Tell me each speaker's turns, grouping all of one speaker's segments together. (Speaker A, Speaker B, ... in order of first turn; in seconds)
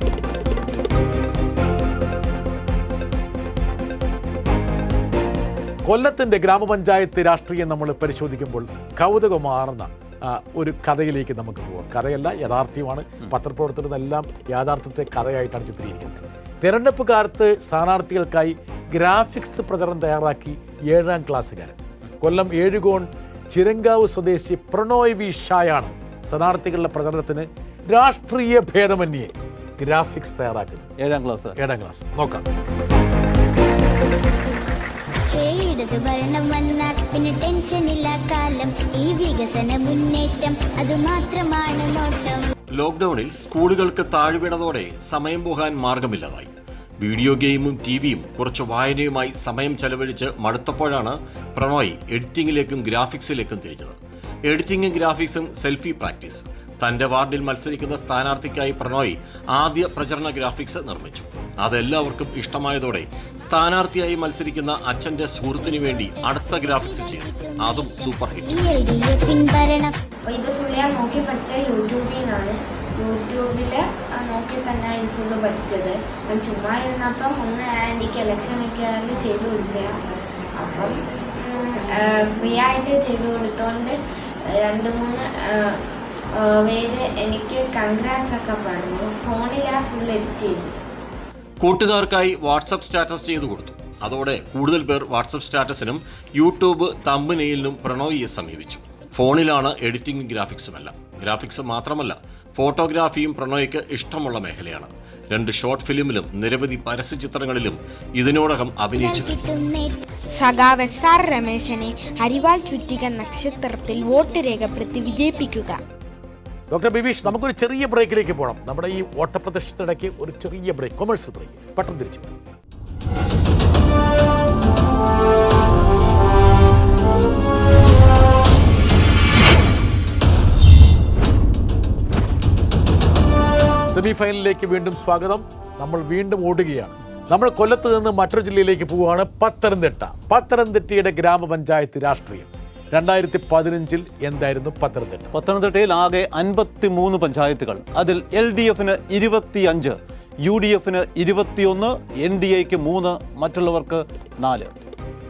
Speaker A: 5.8-30.9, 31.6-32.5, 116.7-122.3, 133.9-145.3
Speaker B: 31.0-31.6, 145.3-154.7
Speaker C: 35.3-42.5, 65.6-70.0, 108.9-110.8, 112.4-113.6
Speaker D: 42.8-46.5, 47.0-54.0, 54.5-68.6, 91.6-109.5
Speaker E: 70.2-80.0, 80.5-85.8, 86.3-90.8
Speaker F: 110.3-115.8